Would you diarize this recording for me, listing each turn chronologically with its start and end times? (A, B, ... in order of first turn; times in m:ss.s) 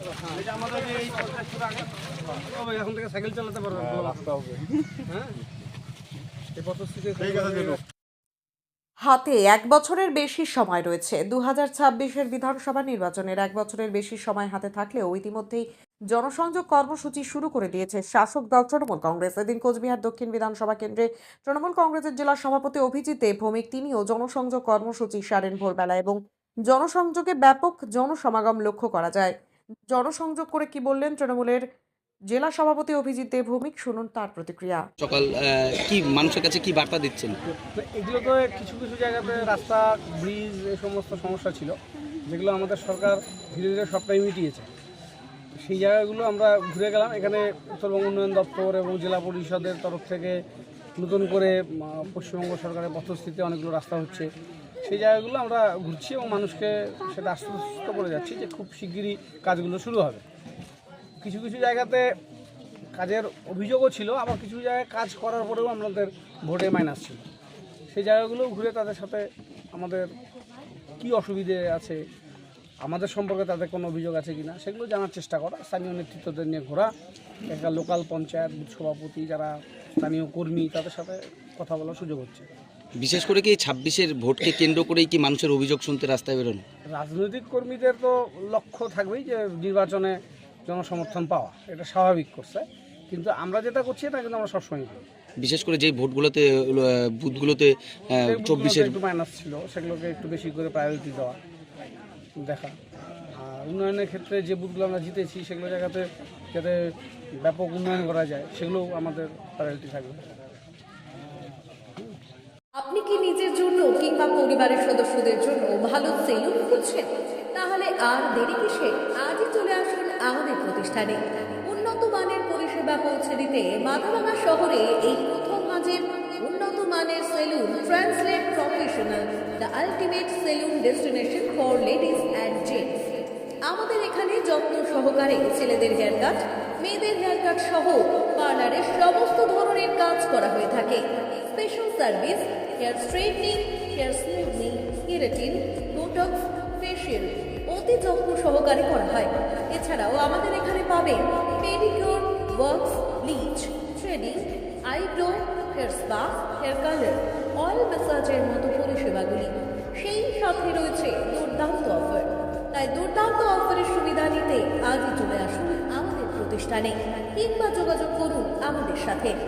0:00.1-0:04.5 A
0:05.1-0:05.4 A
0:06.6-0:07.8 A
0:09.1-0:26.2 B
0:26.7-0:29.4 B
0:29.9-0:31.6 B
0:32.3-0:34.8 B
0:35.0-0:37.4 C
0:37.7-0:44.7 A
0:45.6-0:50.4 A
0:51.0-0:54.3 A
0:54.8-1:00.2 A
1:01.2-1:02.1 A
1:03.0-1:07.2 A
1:07.9-1:10.1 A
1:11.0-1:12.0 A
1:12.8-1:16.9 A
1:17.5-1:22.5 A
1:23.0-1:26.6 C
1:26.9-1:35.0 A
1:35.4-1:39.0 C
1:38.2-1:41.4 A
1:42.4-1:42.8 A
1:43.4-1:46.8 A
1:47.4-1:50.2 A
1:52.8-2:13.0 D
2:13.7-2:49.4 D